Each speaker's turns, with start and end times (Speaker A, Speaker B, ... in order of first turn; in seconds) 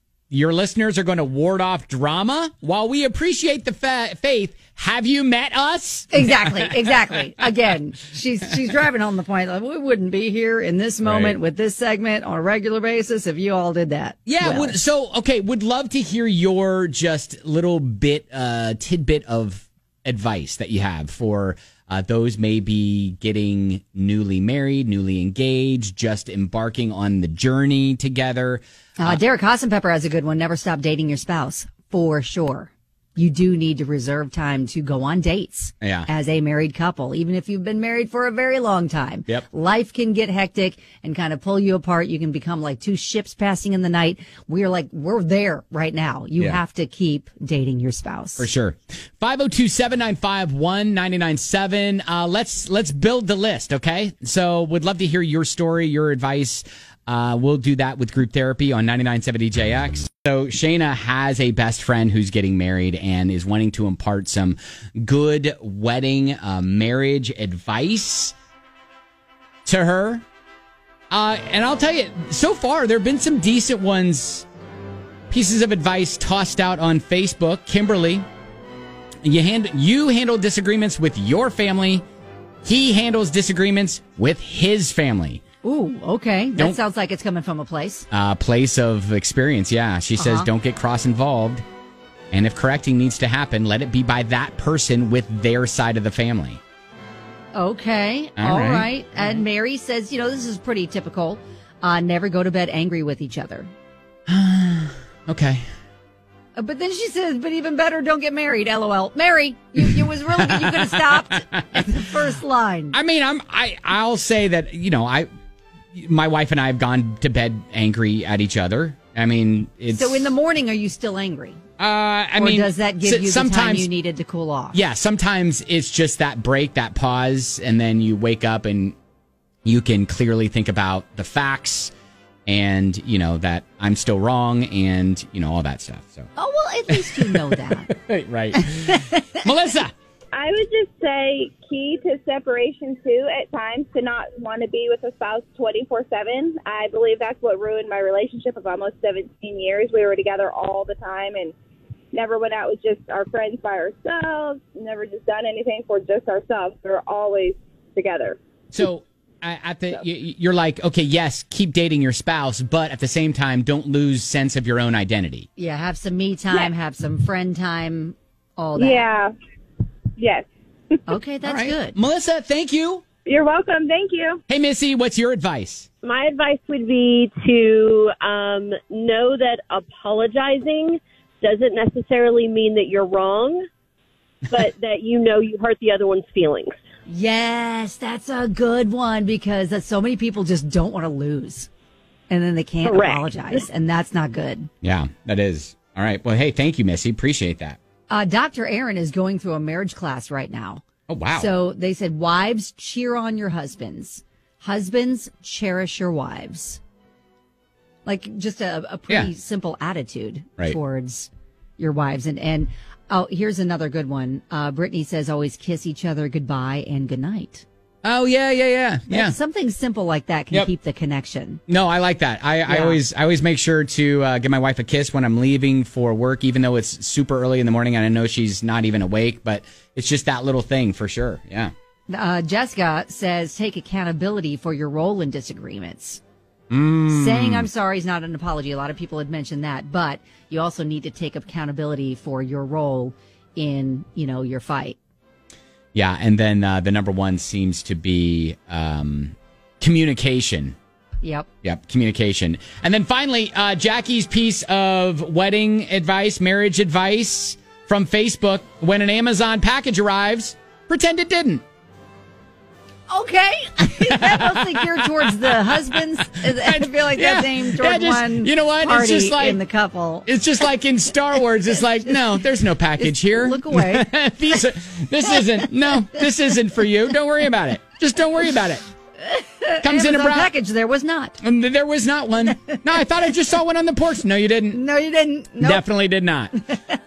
Speaker A: 0.3-6.7, 11.0-11.4, 14.3-29.2, 35.8-36.1, 48.4-68.3, 69.7-70.2, 71.1-74.5, 75.3-78.2, 79.2-82.0, 82.7-85.4, 88.1-91.6, 92.3-96.6, 98.4-99.4, 104.3-105.7, 110.4-111.9, 112.9-115.3, 115.9-120.3, 121.8-123.9, 124.7-129.0, 129.7-131.9, 132.5-136.3, 136.9-139.9, 158.7-165.5, 171.4-173.0, 174.5-175.9, 194.8-197.8, 201.1-201.5, 218.0-219.3, 221.7-231.7, 236.7-237.7, 245.9-250.8, 251.6-261.6, 264.1-269.6, 270.3-278.8, 279.8-280.5, 281.4-284.8, 285.6-286.6
Speaker B: 6.1-14.8, 29.0-48.5, 85.6-88.1, 90.2-90.5, 97.5-103.7, 106.5-113.0, 119.9-121.6, 122.3-124.8, 136.4-137.9, 138.6-139.3, 165.6-169.1, 171.1-172.0, 187.1-191.7, 192.3-194.7, 198.1-206.8, 208.1-217.7, 219.1-221.6, 222.7-223.0, 232.1-236.2, 237.1-245.0, 251.2-251.5, 263.1-270.3, 273.0-274.1, 279.2-281.4, 284.7-285.8
Speaker C: 140.3-151.5, 152.1-158.4, 168.8-169.3, 170.2-171.1, 173.3-174.4
Speaker D: 176.0-183.6, 184.5-186.8, 192.8-193.3